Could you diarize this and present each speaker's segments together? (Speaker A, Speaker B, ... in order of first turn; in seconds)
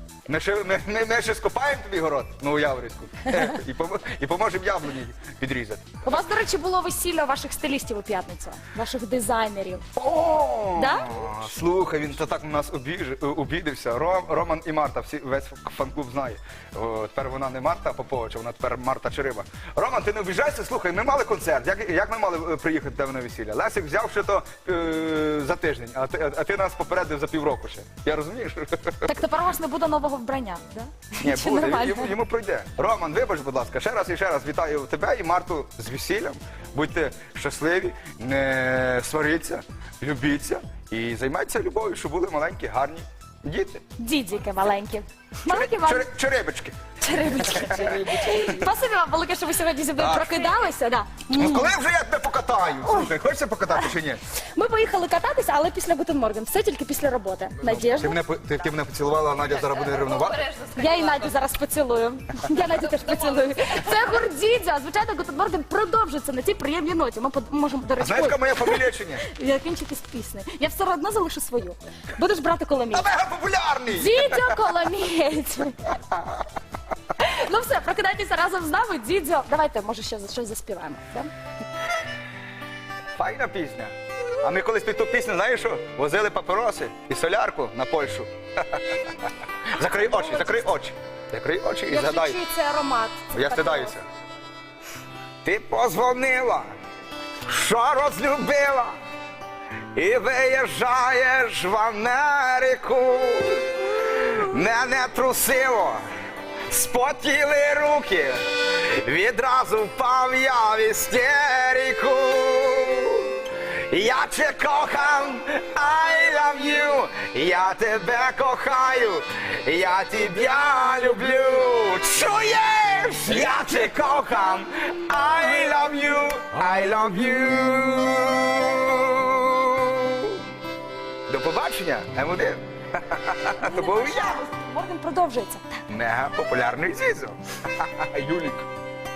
Speaker A: 0.3-6.0, 9.9-29.2, 31.2-43.8, 45.5-48.4, 50.0-50.5, 51.3-54.2, 57.8-60.5, 68.0-69.2, 72.9-74.7, 76.1-76.4, 83.2-92.4, 93.3-94.0, 95.4-96.7, 97.5-98.9, 99.9-106.0, 106.7-130.4, 131.3-134.4, 135.9-138.6
Speaker B: 6.0-9.8, 10.8-11.2, 29.0-32.1, 44.0-46.1, 47.0-51.7, 54.3-58.2, 60.7-73.1, 73.9-76.0, 77.2-81.3, 90.0-90.6, 91.9-94.0, 133.6-135.8